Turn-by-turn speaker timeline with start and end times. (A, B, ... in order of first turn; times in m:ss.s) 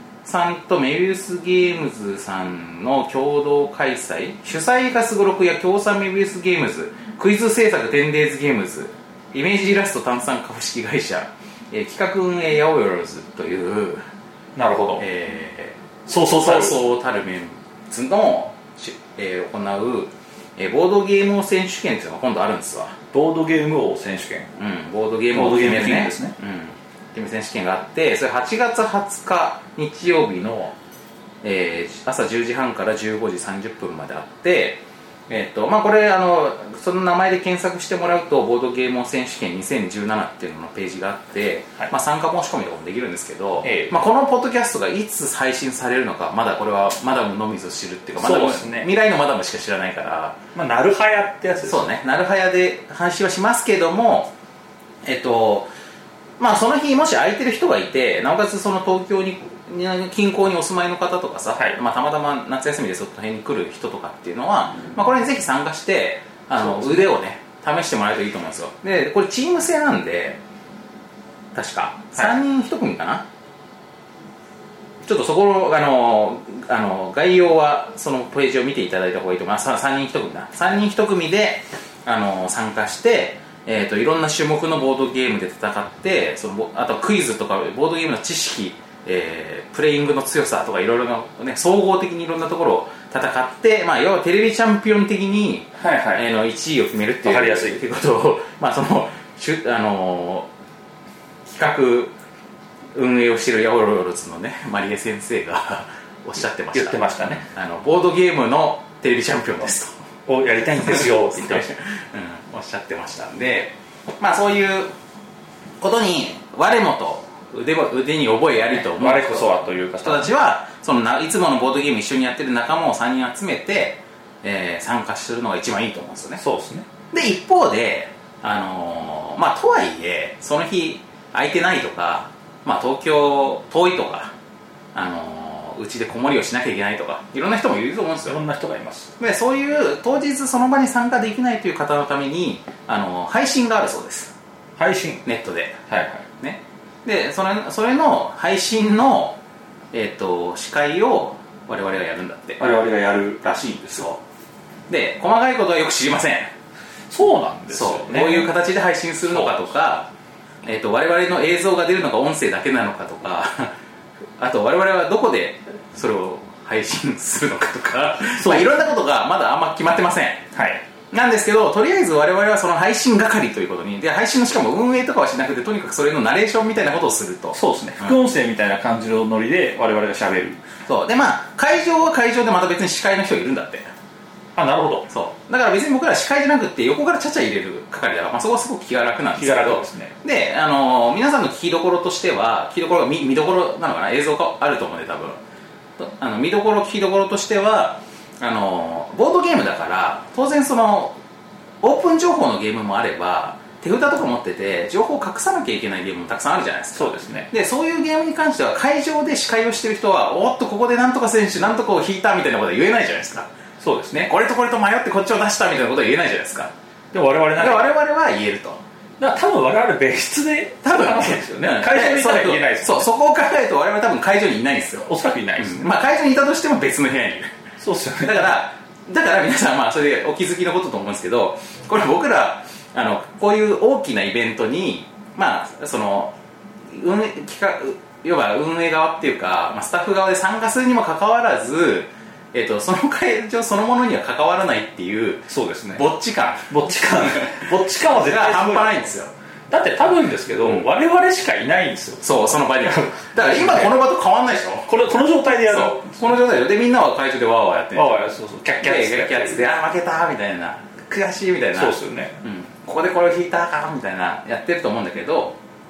0:00.2-0:14.0 A
0:14.5-0:15.0 B
0:15.0-0:23.0 A
0:16.1-0:16.8 B
0:23.1-0:24.5 B
0:24.6-0:30.7 A
0:25.3-0:26.3 B
0:31.4-0:50.4 A
0:43.6-0:44.0 B
0:48.2-0:48.9 B
0:50.5-0:51.8 B
0:51.6-0:54.3 A
0:55.0-0:55.7 A
0:56.4-1:10.4 A
1:01.5-1:01.8 B
1:06.6-1:07.1 B
1:11.5-1:13.2 A
1:15.0-1:40.5 A
1:35.8-1:36.2 B
1:37.2-1:37.8 B
1:41.4-1:42.1 A
1:42.9-1:49.9 A
1:46.7-1:47.4 B
1:50.3-1:51.7 B
1:50.8-1:54.9 A
1:55.8-2:06.4 A
1:58.6-2:00.3 B
2:06.4-2:06.9 B
2:07.1-2:14.3 A
2:14.9-2:18.4 A
2:18.2-2:19.1 B
2:19.2-2:24.3 A
2:24.8-2:25.2 B
2:25.2-2:25.8 A
2:25.9-2:26.3 B
2:26.4-2:29.4 A
2:29.9-2:32.6 A
2:32.6-2:34.1 B
2:34.9-2:36.5 A
2:37.1-2:38.5 B
2:37.7-2:40.1 A
2:39.3-2:39.5 B
2:40.6-2:43.8 A
2:44.4-2:50.4 A
2:48.4-2:48.7 B
2:50.5-2:50.8 B
2:51.1-2:58.1 A
2:57.5-3:00.6 B
3:00.8-3:03.9 A
3:04.6-3:05.1 B
3:05.1-3:15.4 A
3:09.3-3:10.1 B
3:16.0-3:21.2 A
3:21.8-3:33.5 A
3:26.9-3:27.5 B
3:33.8-3:34.3 B
3:34.1-3:36.7 A
3:37.1-3:37.9 B
3:37.6-3:38.8 A
3:39.2-3:43.1 B
3:40.8-3:47.5 A
3:45.0-3:45.8 B
3:47.8-3:48.5 B
3:48.2-3:56.3 A
3:56.9-4:09.3 A
4:05.5-4:06.0 B
4:06.7-4:09.1 B
4:09.7-4:13.9 B
4:12.2-4:14.9 A
4:14.9-4:16.3 B
4:15.6-4:18.3 A
4:17.9-4:19.6 B
4:18.8-4:25.6 A
4:21.7-4:22.4 B